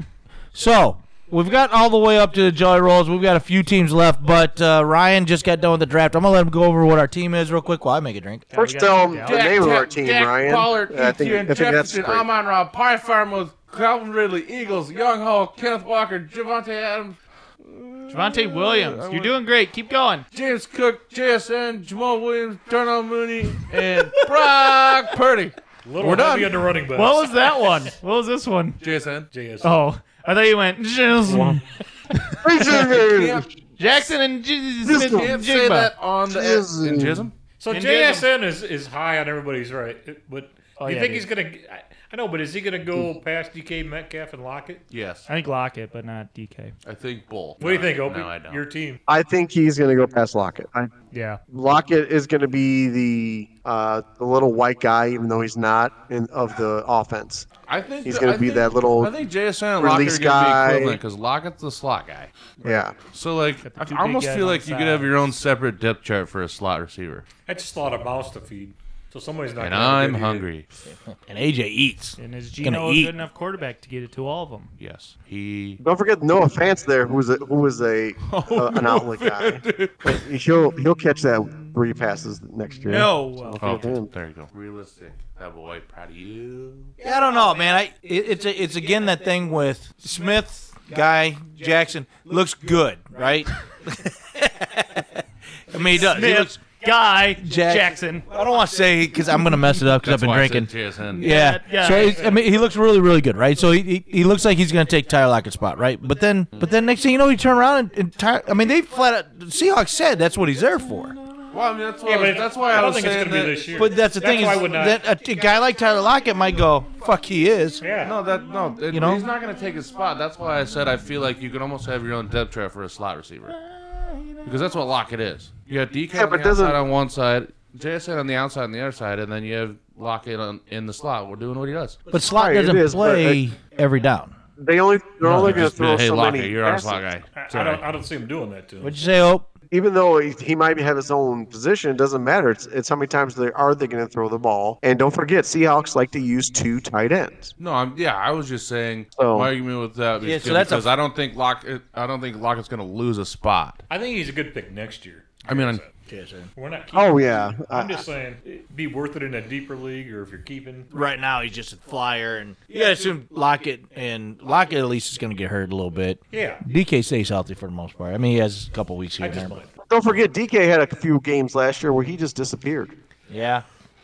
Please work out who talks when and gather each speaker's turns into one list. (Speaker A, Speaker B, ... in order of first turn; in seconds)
Speaker A: 0.5-8.4, 71.2-73.1, 87.0-95.1, 95.7-96.6, 97.4-111.2, 113.8-118.1, 118.9-119.3, 123.5-124.4, 132.1-134.3, 138.8-139.5, 150.2-150.9, 156.1-156.5, 160.9-169.6, 173.3-173.6
Speaker B: 8.5-9.7, 18.1-20.3, 26.9-28.8, 29.6-32.7, 33.8-35.9, 37.7-38.3, 40.8-41.3, 45.3-46.7, 51.1-51.4, 63.6-65.2, 72.2-74.7, 82.8-83.8, 95.8-98.3, 101.1-102.4
Speaker C: 8.5-12.3, 32.4-33.5, 34.8-35.3, 36.2-37.3, 49.1-50.9, 51.5-57.5, 58.0-59.1, 59.8-61.0, 62.6-63.0, 75.8-84.1, 126.1-126.8, 132.3-133.4, 134.6-137.1, 139.7-147.5, 149.2-149.5, 156.9-158.0, 169.9-172.9
Speaker D: 9.2-19.3, 20.3-26.6, 28.8-29.3, 32.7-33.5, 34.9-37.3, 44.9-45.3, 46.8-48.6, 57.7-62.3, 63.0-67.2, 69.5-70.7, 74.8-75.8, 78.5-80.2, 83.6-86.9, 100.0-101.3, 111.5-113.7, 118.0-123.5, 124.4-132.0, 135.2-137.8, 147.6-153.8, 155.4-155.8
Speaker E: 25.8-27.3, 29.3-29.7, 31.2-31.6, 37.6-44.9, 47.6-49.0, 67.5-70.5, 112.0-115.0, 117.8-118.1, 135.3-135.6, 137.3-139.0, 153.9-155.9, 156.6-160.9, 166.3-166.6, 169.2-169.7